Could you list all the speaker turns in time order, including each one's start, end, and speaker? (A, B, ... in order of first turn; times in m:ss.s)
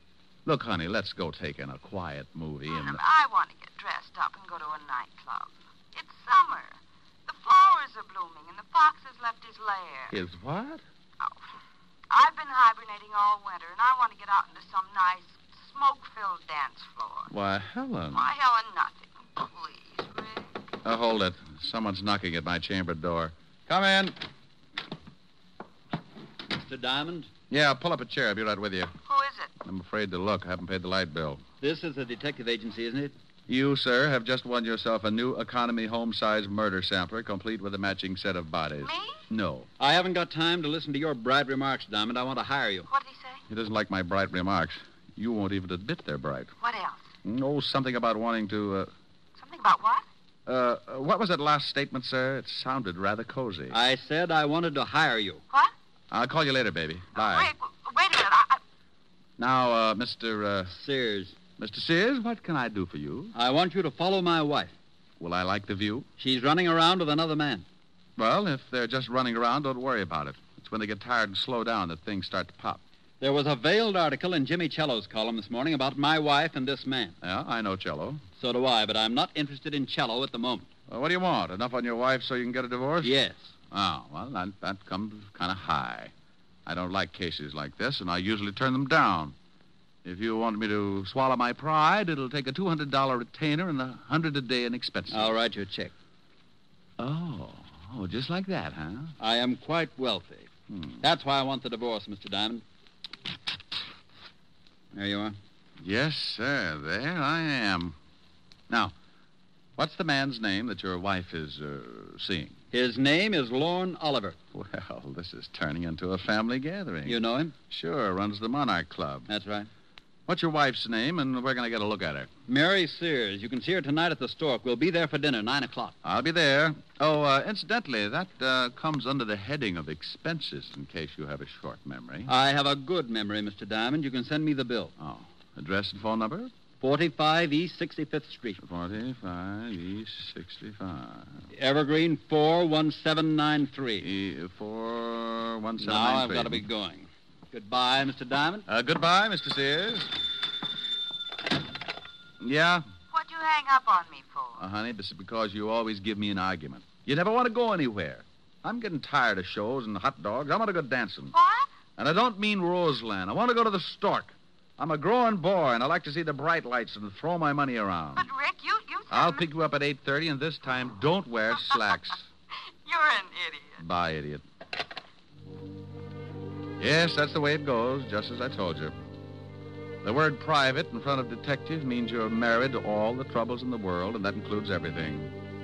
0:00.5-0:03.0 A
0:02.7-0:10.1 B
0:10.1-0:10.8 A
0:12.1-0:17.3 B
0:17.3-0:18.3 A
0:18.1-0:20.5 B
0:20.8-0:24.2 A
0:26.5-0:27.3 C
0:27.5-0:29.0 A
0:29.1-0:29.5 B
0:29.6-0:31.4 A
0:31.6-0:33.1 C
0:33.5-0:39.7 A
0:38.8-0:39.2 B
0:39.8-0:42.9 C
0:42.9-0:43.4 B
0:43.5-0:46.5 A
0:46.6-0:47.0 B
0:47.2-0:48.9 A
0:49.4-0:50.0 B
0:50.5-0:53.8 A
0:53.7-0:55.4 C
0:56.1-0:57.5 A
0:57.4-0:58.6 B
0:59.4-1:00.7 A
1:00.7-1:01.4 C
1:01.6-1:03.3 A
1:03.3-1:04.7 C
1:05.2-1:06.1 A
1:06.2-1:07.6 C
1:08.2-1:12.8 A
1:13.2-1:17.2 C
1:17.2-1:18.2 A
1:18.4-1:20.7 C
1:20.9-1:23.2 A
1:23.0-1:23.5 C
1:23.7-1:26.1 A
1:26.7-1:29.4 A
1:30.0-1:35.3 A
1:35.1-1:35.9 C
1:37.0-1:39.1 A
1:39.2-1:40.5 C
1:41.0-1:42.6 C
1:44.9-1:45.4 C
1:45.8-1:48.0 A
1:49.8-1:52.6 A
1:52.7-1:54.4 C
1:54.5-1:59.3 A
1:57.1-1:57.6 C
1:59.3-1:59.7 C
2:00.3-2:02.3 A
2:02.5-2:06.0 C
2:06.0-2:12.3 A
2:12.3-2:14.9 C
2:15.0-2:16.5 A
2:16.8-2:18.6 C
2:18.6-2:21.4 A
2:21.5-2:24.0 C
2:24.0-2:26.6 A
2:25.8-2:28.7 C
2:28.7-2:30.1 A
2:32.4-2:32.8 A
2:33.1-2:34.6 B
2:34.6-2:41.3 A
2:41.4-2:41.6 B
2:42.0-2:48.3 A
2:48.2-2:49.4 B
2:49.1-2:52.3 A
2:52.9-2:53.7 B
2:53.8-2:54.4 A
2:56.8-2:59.0 A
3:00.0-3:05.3 A